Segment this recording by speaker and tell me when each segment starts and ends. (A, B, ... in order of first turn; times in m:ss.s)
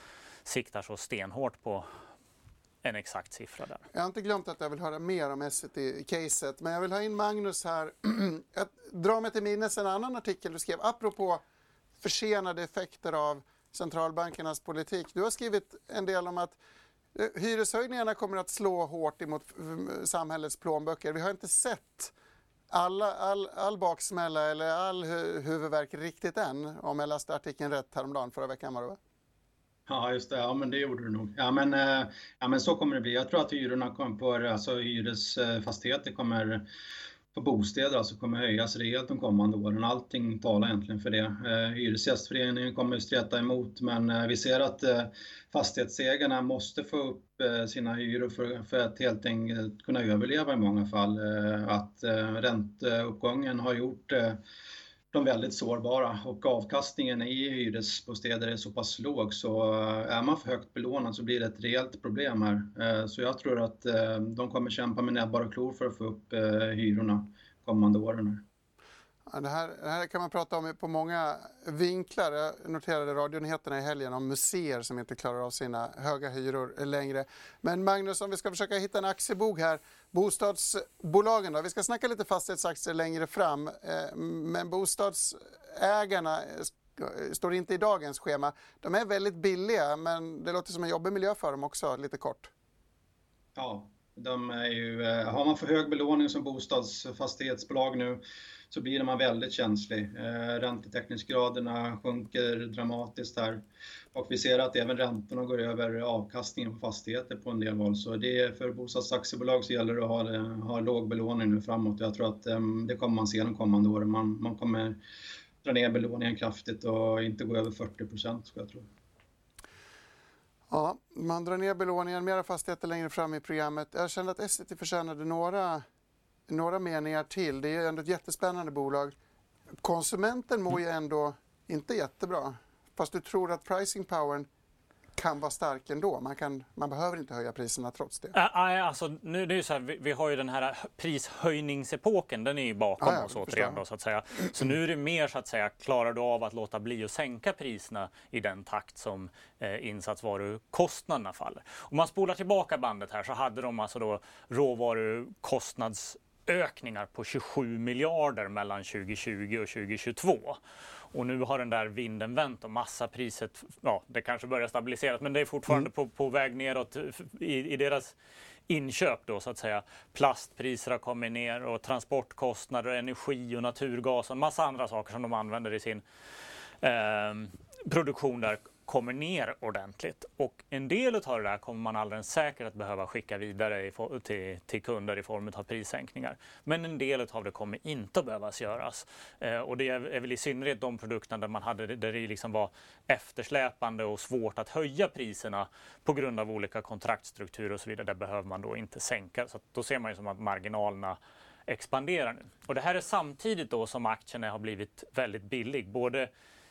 0:00.4-0:01.9 A
0:02.8-0:03.8 A
0:03.9-0:11.4 B
0:12.0-0:16.6 B
0:17.1-0:22.1 B
0:22.7-0:29.0 B
0:29.9-0:36.6 C
0:37.3-0:54.4 C
0:55.1-1:08.4 C
1:09.2-1:32.5 B
1:33.6-1:43.6 C
1:44.1-1:55.0 C
1:55.6-1:58.9 C
2:00.7-2:05.8 B
2:06.5-2:09.1 B
2:09.8-2:14.5 B
2:15.2-2:18.3 B
2:18.3-2:40.6 A
2:23.0-2:23.8 B
2:41.1-2:48.1 A
2:48.7-2:56.0 A
2:56.8-3:26.3 A